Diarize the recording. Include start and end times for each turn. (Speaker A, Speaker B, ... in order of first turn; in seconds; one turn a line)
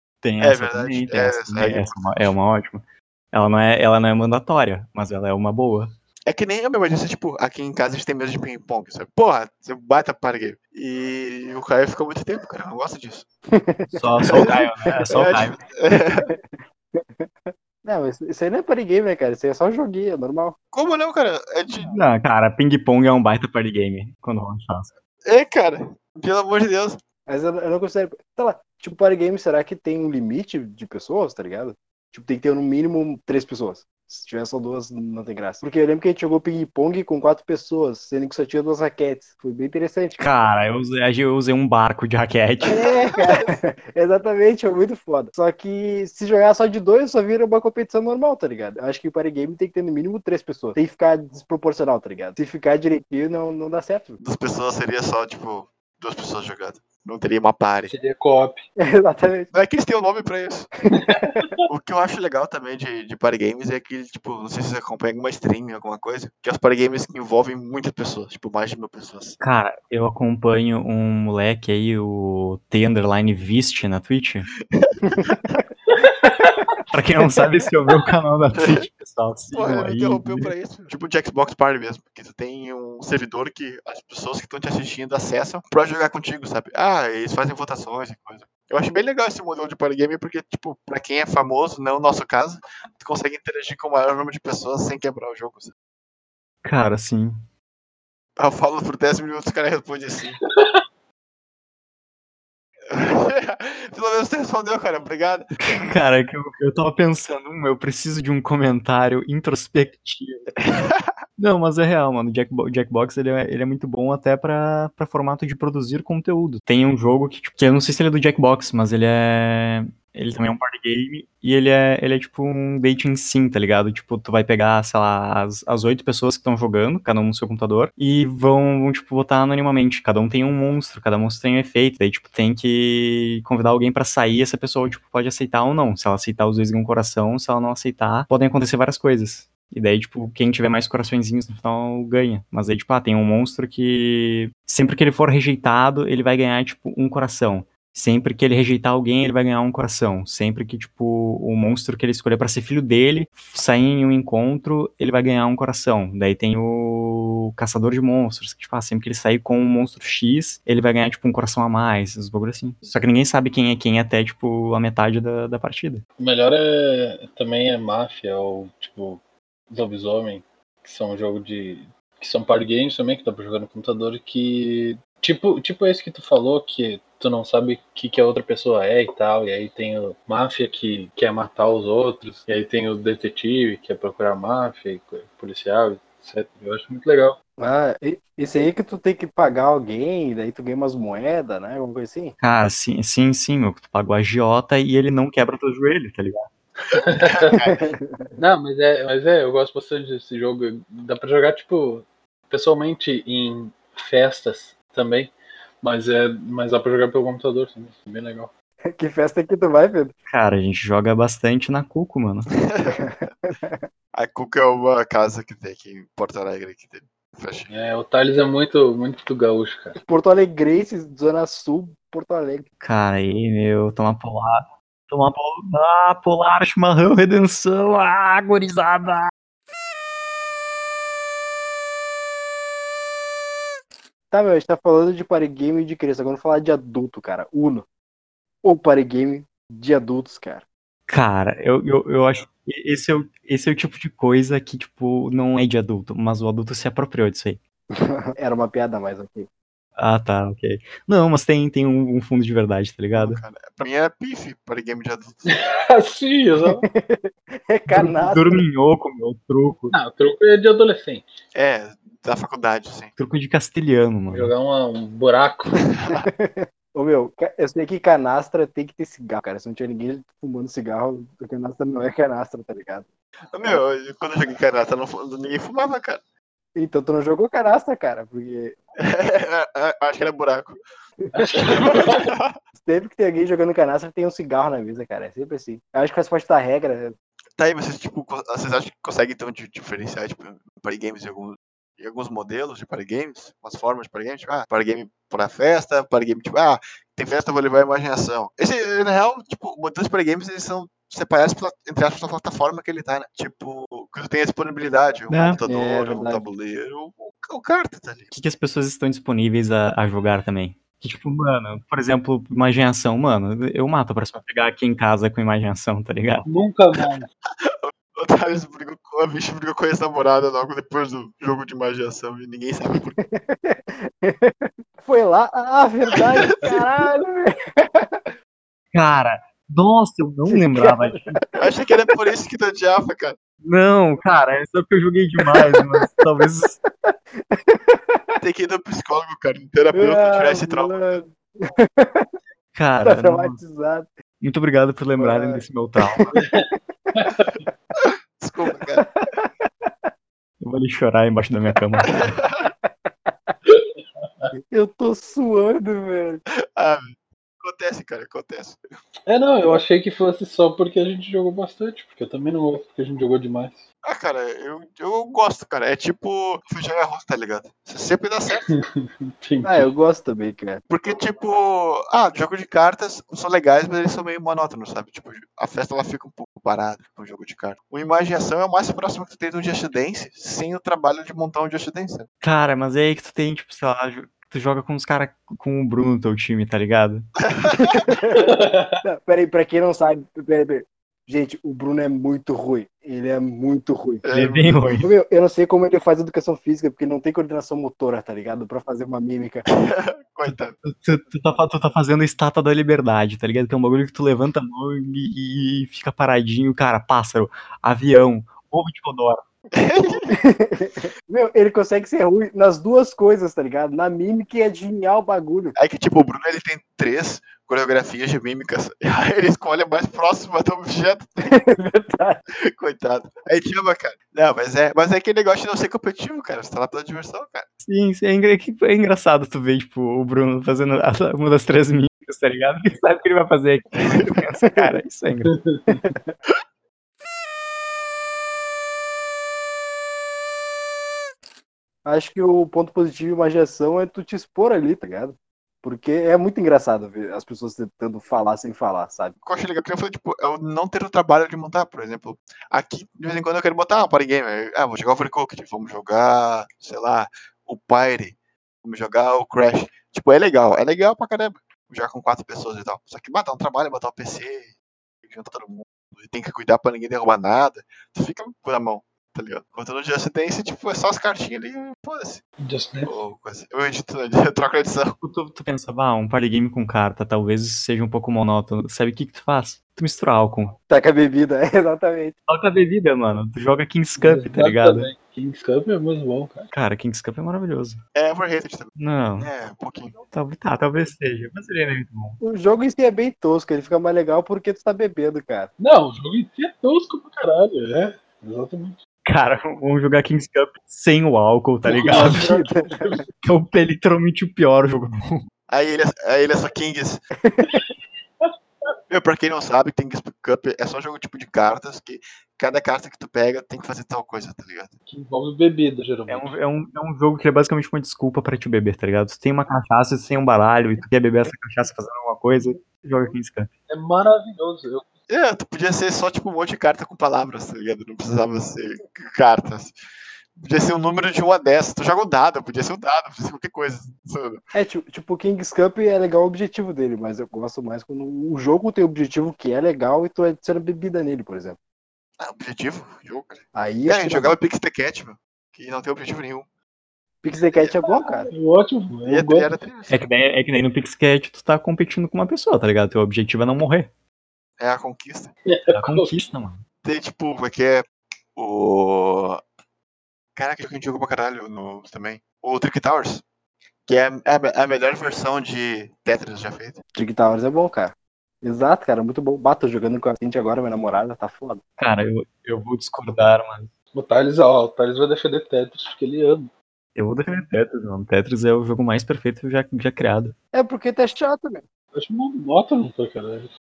Speaker A: 0.2-5.9
Speaker B: 0.4-2.3
Speaker B: 6.2-13.2
Speaker C: 13.5-15.5
Speaker A: 13.9-15.6
Speaker B: 14.3-14.6
Speaker B: 15.1-16.3
Speaker C: 16.1-16.4
Speaker C: 17.0-20.6
Speaker B: 20.7-21.9
Speaker A: 21.9-24.9
Speaker B: 25.2-27.0
Speaker C: 27.3-40.2
Speaker A: 40.2-42.8
Speaker B: 42.6-43.5
Speaker C: 42.6-54.2
Speaker B: 54.2-57.9
Speaker D: 57.9-58.6
Speaker C: 58.8-59.5
Speaker B: 59.5-60.7
Speaker D: 60.9-61.6
Speaker C: 61.0-61.5
Speaker B: 61.6-69.4
Speaker A: 69.4-74.5
Speaker B: 74.7-75.6
Speaker C: 75.0-75.6
Speaker D: 75.9-76.7
Speaker A: 76.9-80.5
Speaker B: 79.5-95.7
Speaker A: 96.6-97.4
Speaker B: 98.4-100.4
Speaker B: 102.9-105.5
Speaker A: 105.6-110.6
Speaker B: 110.6-111.1
Speaker A: 111.4-166.0
Speaker D: 166.2-187.4
Speaker C: 187.6-192.3
Speaker A: 192.4-196.5
Speaker D: 196.9-197.6
Speaker B: 197.1-197.9
Speaker C: 197.6-198.4
Speaker D: 198.4-208.5
Speaker C: 208.9-210.1
Speaker A: 210.3-212.5
Speaker B: 212.6-213.1
Speaker C: 212.9-213.8
Speaker B: 214.1-217.7
Speaker D: 217.7-220.0
Speaker C: 220.0-222.7
Speaker A: 222.8-229.3
Speaker C: 234.3-237.8
Speaker C: 238.6-240.6
Speaker A: 241.1-247.6
Speaker C: 247.9-249.5
Speaker A: 250.0-253.4
Speaker B: 253.2-255.5
Speaker D: 255.5-256.9
Speaker C: 256.6-258.6
Speaker A: 257.9-259.9
Speaker D: 259.9-261.2
Speaker B: 261.5-263.1
Speaker A: 263.2-264.5
Speaker D: 264.3-265.9
Speaker B: 265.9-266.2
Speaker C: 266.1-273.1
Speaker B: 273.5-276.2
Speaker C: 276.8-278.7
Speaker B: 279.0-280.8
Speaker D: 281.3-282.3
Speaker B: 281.6-282.6
Speaker C: 282.8-287.1
Speaker B: 287.6-308.3
Speaker A: 305.3-305.6
Speaker C: 305.6-306.4
Speaker A: 308.3-316.5
Speaker D: 316.4-317.3
Speaker B: 317.6-323.1
Speaker C: 323.1-328.3
Speaker B: 326.5-326.7
Speaker A: 328.9-331.4
Speaker C: 330.5-331.7
Speaker B: 331.6-333.4
Speaker A: 333.6-336.8
Speaker C: 337.0-338.4
Speaker B: 338.4-341.2
Speaker C: 339.9-342.3
Speaker A: 342.7-343.6
Speaker C: 343.0-344.1
Speaker A: 344.4-346.4
Speaker C: 345.2-347.7
Speaker D: 346.4-347.6
Speaker B: 348.0-349.1
Speaker C: 348.9-350.1
Speaker A: 350.6-352.3
Speaker B: 352.1-352.7
Speaker C: 352.6-353.6
Speaker D: 353.6-354.5
Speaker C: 354.7-356.4
Speaker B: 356.8-358.8
Speaker D: 359.3-363.8
Speaker B: 364.0-368.7
Speaker D: 368.6-369.9
Speaker C: 369.6-370.8
Speaker B: 370.9-382.3
Speaker A: 382.4-387.3
Speaker B: 387.5-388.0
Speaker C: 387.6-394.2
Speaker D: 388.3-389.0
Speaker B: 394.2-395.0
Speaker A: 394.3-395.1
Speaker C: 395.0-399.6
Speaker B: 399.7-400.7
Speaker A: 400.4-409.4
Speaker B: 409.7-410.3
Speaker C: 410.3-415.8
Speaker B: 415.8-421.4
Speaker C: 421.4-422.4
Speaker B: 422.7-427.7
Speaker A: 427.9-435.5
Speaker B: 434.0-434.3
Speaker C: 434.7-435.0
Speaker D: 435.5-436.1
Speaker C: 435.9-436.3
Speaker C: 442.0-449.4
Speaker B: 449.4-464.7
Speaker B: 465.2-472.4
Speaker D: 472.6-473.1
Speaker B: 473.0-475.2
Speaker A: 475.2-480.8
Speaker C: 480.9-482.3
Speaker A: 482.5-485.1
Speaker D: 484.2-486.7
Speaker A: 486.7-488.0
Speaker B: 488.1-490.1
Speaker A: 489.0-489.5
Speaker A: 490.3-492.4
Speaker C: 492.4-495.7
Speaker D: 495.8-499.0
Speaker A: 499.2-502.5
Speaker D: 501.9-503.2
Speaker C: 502.0-503.2
Speaker A: 503.4-505.4
Speaker B: 505.7-507.2
Speaker C: 507.4-507.8
Speaker B: 509.1-514.9
Speaker D: 515.1-516.6
Speaker A: 516.3-523.7
Speaker D: 523.9-525.1
Speaker B: 525.3-529.9
Speaker B: 530.5-534.6
Speaker C: 534.7-541.8
Speaker B: 542.4-546.6
Speaker C: 543.7-544.5
Speaker C: 547.4-548.5
Speaker D: 548.1-549.7
Speaker B: 549.2-550.2
Speaker A: 550.1-554.1
Speaker B: 554.8-555.5
Speaker D: 555.7-556.3
Speaker A: 555.9-556.8
Speaker B: 557.0-559.6
Speaker B: 560.5-563.4
Speaker B: 564.1-567.0
Speaker C: 567.1-571.8
Speaker A: 572.0-573.9
Speaker D: 574.1-576.7
Speaker A: 577.1-580.5
Speaker C: 580.7-581.8
Speaker D: 582.1-583.7